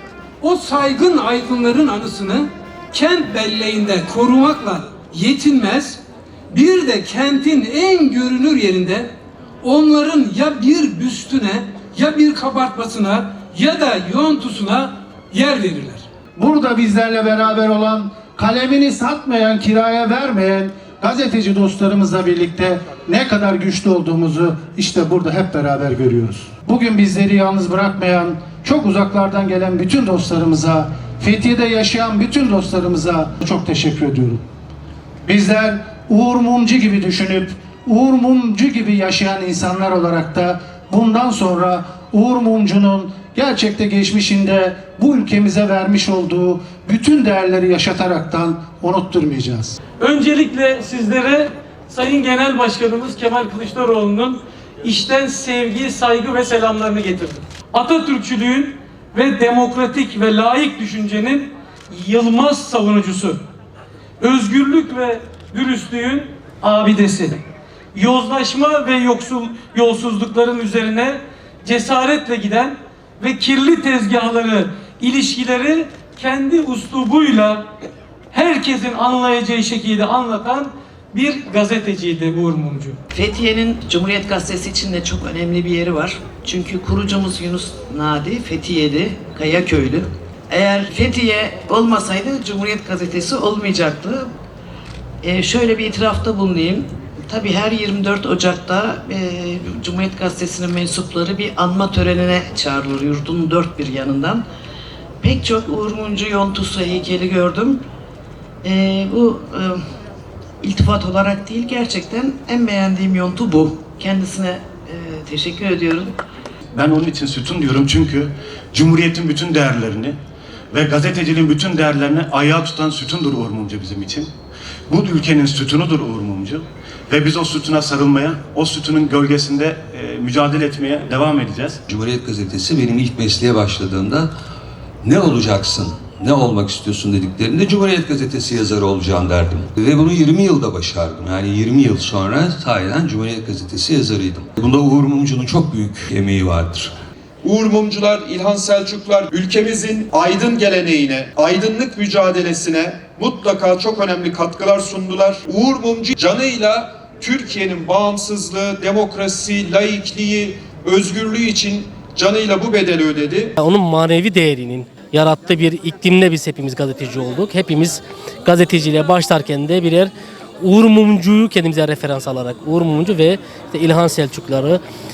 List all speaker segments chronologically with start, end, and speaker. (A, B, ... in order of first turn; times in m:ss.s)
0:00.4-0:16.0 A
0:16.4-0:34.4 B
0:35.2-0:49.8 B
0:50.0-1:03.4 C
1:04.2-1:07.4 C
1:07.9-1:17.7 C
1:18.3-1:23.0 C
1:23.1-1:34.3 D
1:35.2-1:44.4 D
1:45.2-1:47.8 D
1:48.6-1:49.8 D
1:50.6-1:56.1 D
1:56.7-2:00.2 E
2:00.7-2:04.3 E
2:04.9-2:11.8 E
2:11.9-2:14.3 F
2:15.0-2:26.9 F
2:27.4-2:43.6 G
2:43.6-2:54.8 H